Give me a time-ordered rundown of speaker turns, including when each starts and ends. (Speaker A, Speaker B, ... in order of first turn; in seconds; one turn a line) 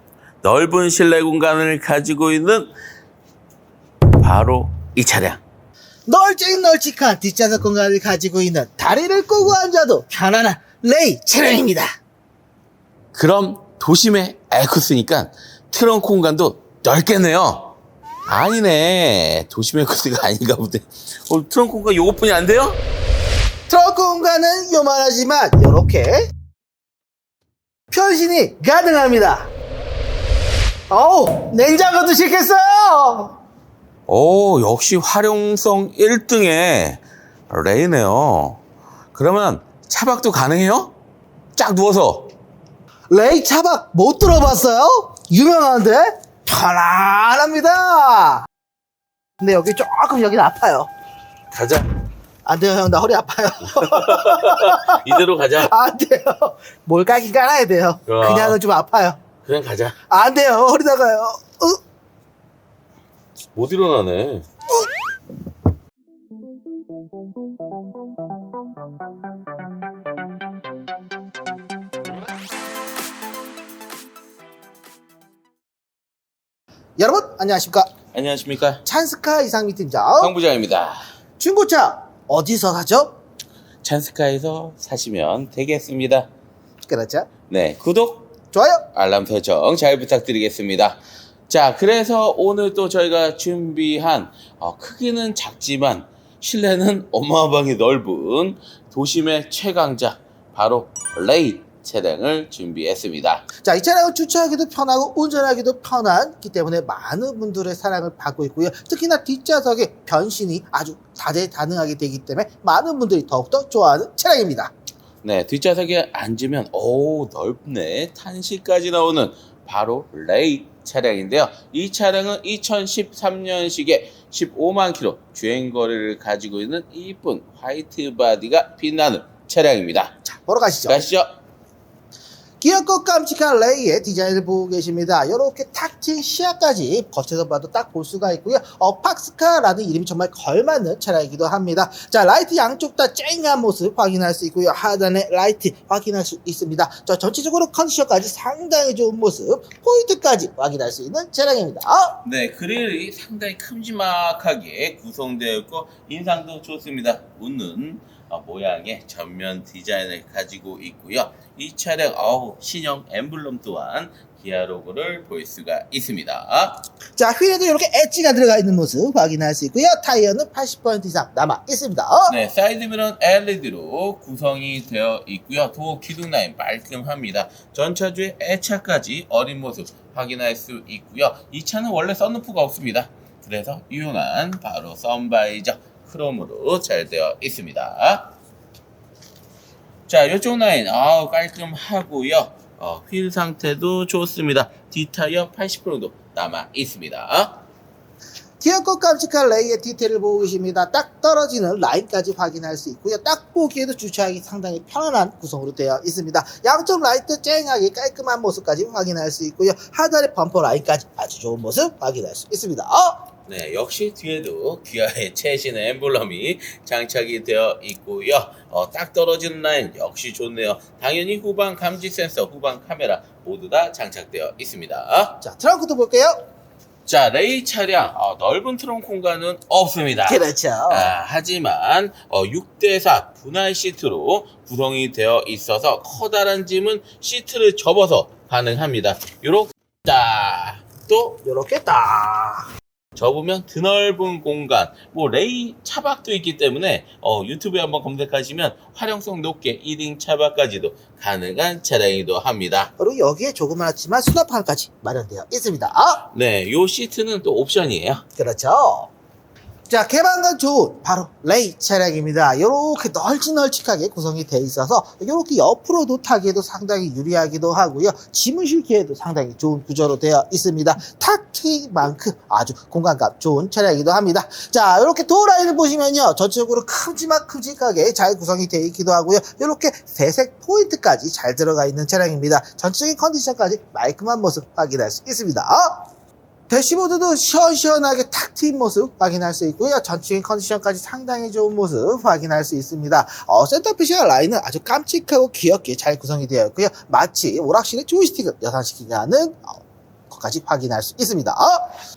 Speaker A: 0.4-2.7
Speaker A: 4.2-5.4
Speaker B: 6.1-11.9
Speaker A: 13.1-17.7
Speaker A: 18.3-22.8
Speaker B: 23.7-26.2
Speaker B: 27.9-29.5
Speaker B: 30.9-33.4
Speaker A: 34.1-38.6
Speaker A: 39.1-40.9
Speaker A: 41.5-42.3
Speaker B: 43.1-48.5
Speaker B: 49.4-50.9
Speaker A: 51.5-51.9
Speaker B: 52.5-59.2
Speaker A: 53.8-55.7
Speaker A: 58.1-58.6
Speaker A: 59.5-60.0
Speaker B: 60.1-61.8
Speaker A: 63.5-64.5
Speaker B: 77.0-77.9
Speaker A: 78.1-78.8
Speaker B: 78.8-80.3
Speaker A: 80.2-81.0
Speaker B: 81.4-83.1
Speaker A: 83.8-86.3
Speaker B: 86.9-87.3
Speaker A: 87.5-88.3
Speaker B: 88.5-88.8
Speaker A: 88.9-91.0
Speaker A: 91.5-103.5
Speaker B: 103.6-114.7
Speaker A: 115.2-130.2
Speaker B: 130.3-131.1
Speaker A: 130.9-131.3
Speaker B: 132.6-152.2
Speaker A: 152.2-166.8
Speaker B: 167.2-172.3
Speaker A: 172.3-188.3
Speaker A: 190.1-197.6
Speaker B: 198.6-213.2
Speaker A: 213.5-225.4
Speaker B: 225.4-226.3
Speaker A: 227.1-241.4
Speaker B: 230.2-231.1
Speaker B: 241.4-242.7
Speaker A: 243.2-252.9
Speaker B: 253.0-256.2
Speaker A: 256.3-258.2
Speaker B: 258.4-259.1
Speaker B: 259.9-286.0
Speaker B: 286.7-301.9